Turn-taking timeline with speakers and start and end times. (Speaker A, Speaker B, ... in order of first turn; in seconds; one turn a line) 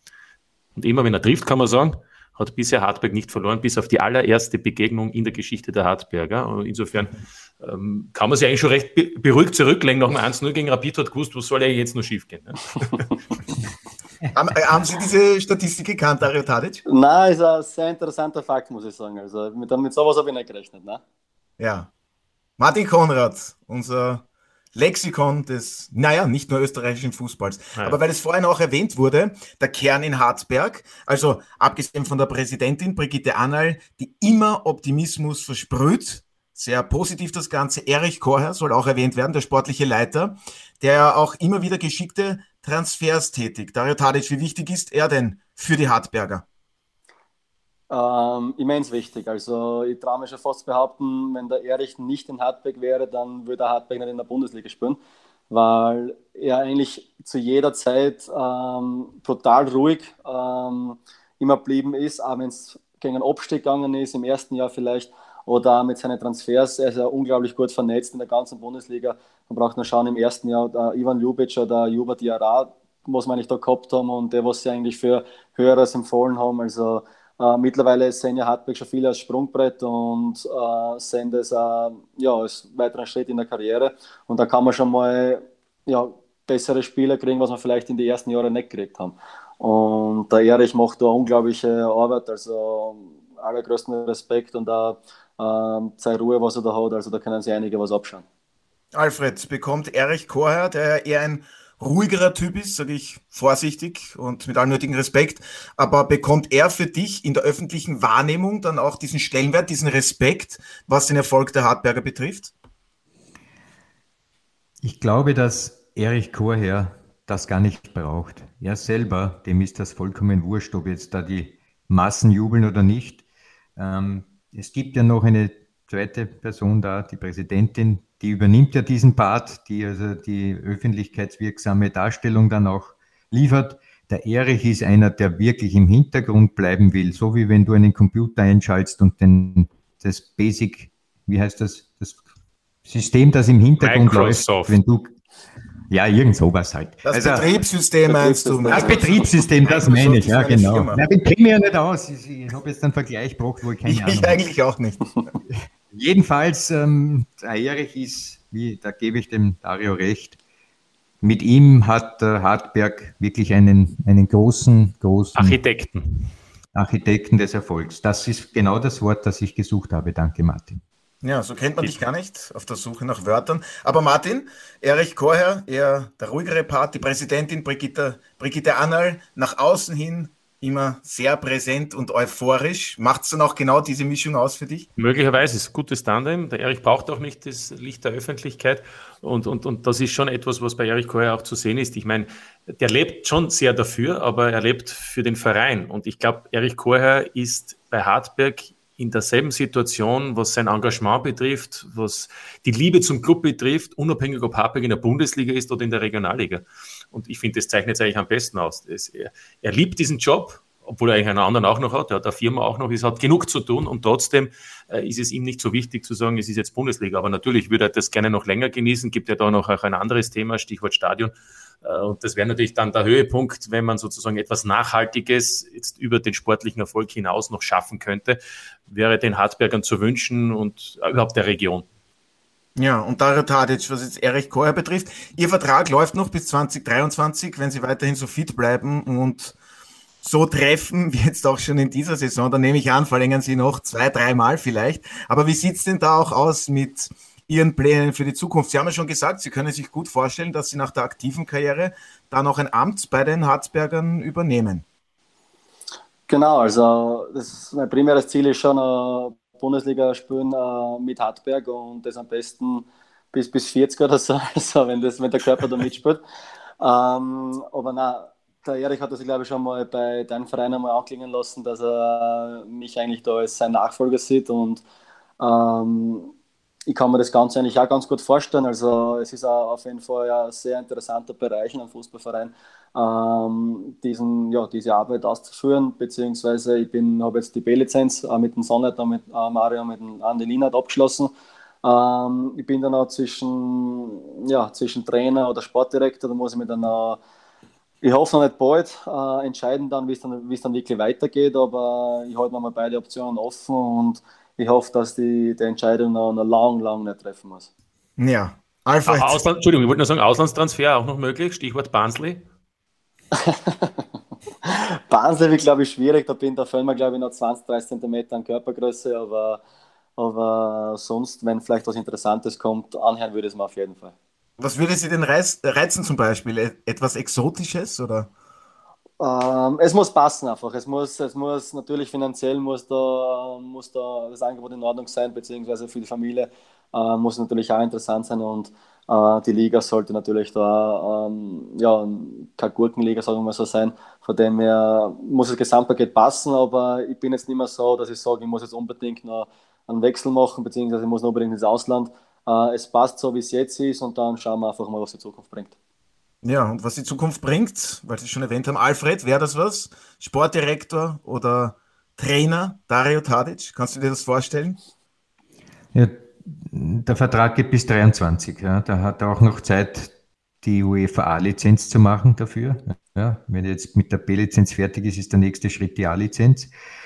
Speaker A: 0.8-13.1
Speaker B: 14.3-16.8
Speaker C: 16.9-21.0
Speaker B: 21.6-21.9
Speaker B: 22.6-24.2
Speaker B: 24.7-46.4
Speaker C: 47.9-55.0
Speaker C: 55.5-98.2
Speaker B: 98.9-112.5
Speaker D: 114.8-123.2
Speaker D: 123.8-142.2
Speaker D: 142.8-145.1
Speaker A: 143.8-144.8
Speaker D: 145.9-147.5
Speaker B: 147.1-151.0
Speaker C: 148.1-149.1
Speaker D: 148.7-154.4
Speaker B: 153.8-155.0
Speaker D: 155.5-160.4
Speaker D: 161.2-165.6
Speaker A: 165.4-166.3
Speaker D: 166.7-170.8
Speaker B: 171.2-184.9
Speaker A: 185.0-231.9
Speaker B: 232.8-239.6
Speaker B: 240.2-254.8
Speaker C: 256.3-266.2
Speaker C: 266.8-274.8
Speaker C: 275.4-276.3
Speaker C: 276.9-291.3
Speaker C: 291.8-297.2
Speaker C: 298.0-307.7
Speaker B: 308.2-309.4
Speaker A: 309.1-312.4
Speaker C: 313.3-314.1
Speaker C: 314.6-319.6
Speaker C: 320.2-324.1
Speaker B: 324.6-328.3
Speaker C: 329.2-355.7
Speaker B: 356.4-364.8
Speaker D: 365.9-376.7